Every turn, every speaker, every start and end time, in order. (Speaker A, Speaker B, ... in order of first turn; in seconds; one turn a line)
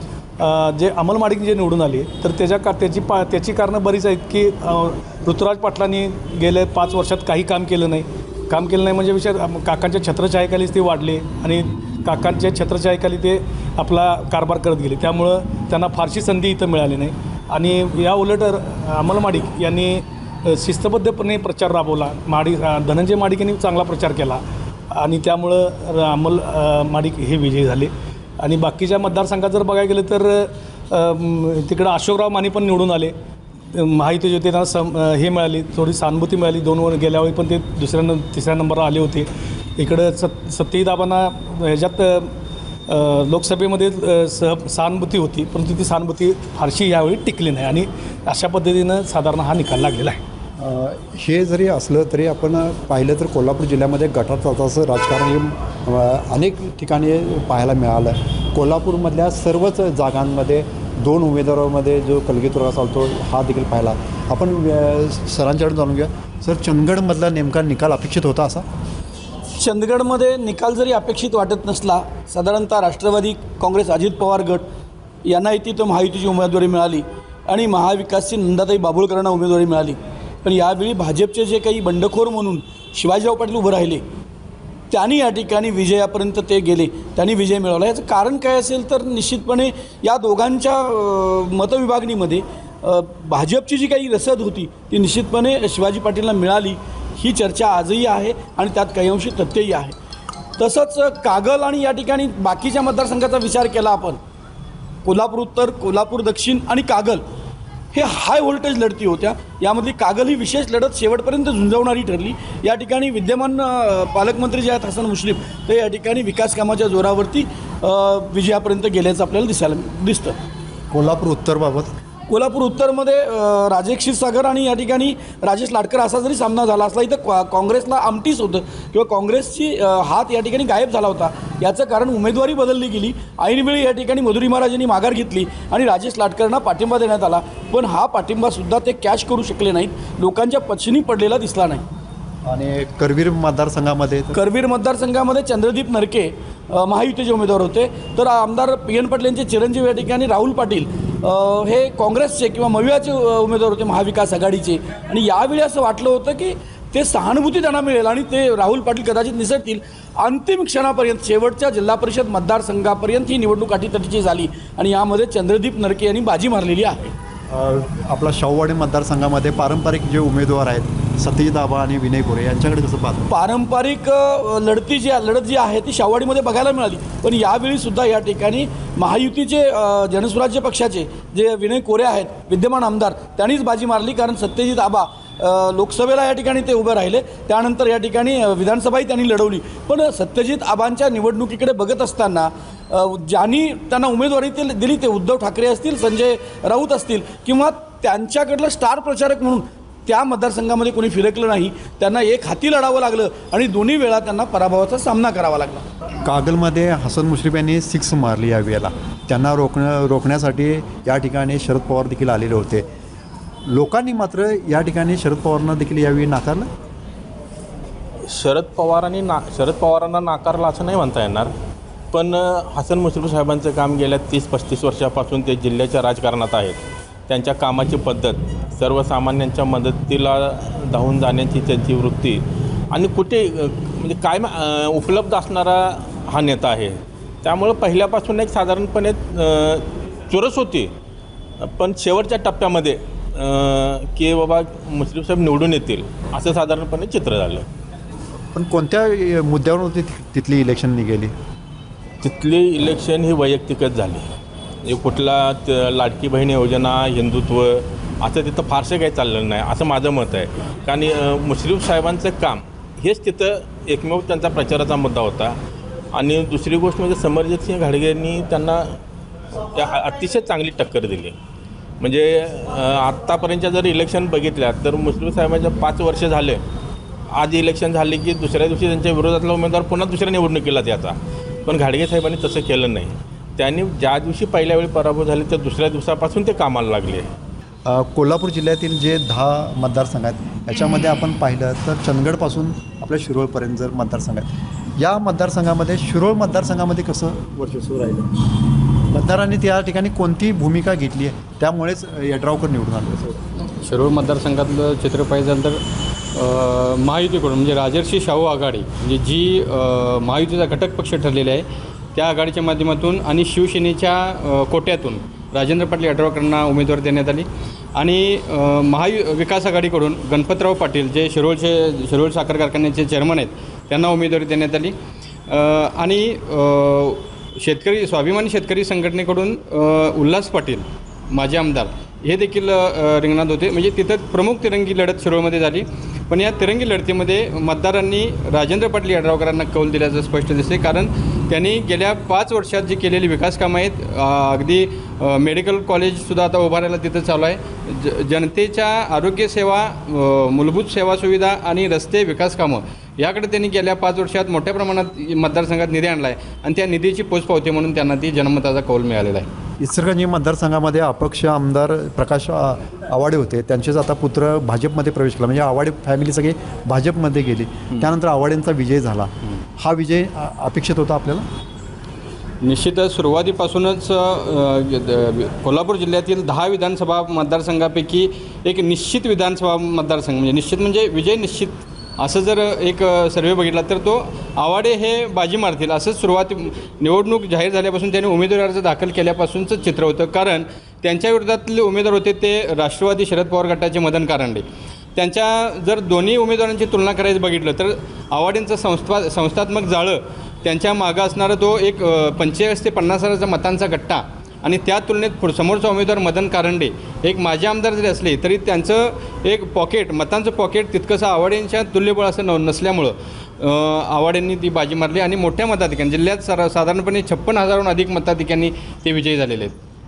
Speaker A: 0.4-33.1
Speaker A: 33.7-39.3
Speaker A: 39.8-42.3
Speaker A: 42.9-50.2
Speaker B: 50.6-68.7
Speaker C: 69.6-74.6
Speaker C: 75.2-84.0
Speaker C: 84.9-99.9
Speaker C: 100.6-104.2
Speaker C: 105.0-107.2
Speaker C: 107.9-120.3
Speaker B: 120.9-121.9
Speaker C: 122.3-141.8
Speaker B: 142.4-144.3
Speaker C: 144.3-167.1
Speaker B: 167.5-173.3
Speaker C: 173.3-205.8
Speaker B: 206.2-212.8
Speaker B: 213.7-216.7
Speaker D: 218.3-221.5
Speaker D: 222.1-232.4
Speaker D: 232.9-240.9
Speaker D: 241.6-247.7
Speaker B: 248.5-251.3
Speaker D: 252.2-254.3
Speaker D: 254.8-265.6
Speaker D: 266.1-268.8
Speaker D: 269.7-271.3
Speaker D: 272.0-276.6
Speaker D: 277.3-287.3
Speaker B: 287.9-298.6
Speaker B: 299.1-303.4
Speaker E: 303.6-305.8
Speaker E: 306.3-324.9
Speaker E: 325.5-359.5
Speaker B: 359.8-371.4
Speaker E: 372.6-394.6
Speaker E: 395.1-419.7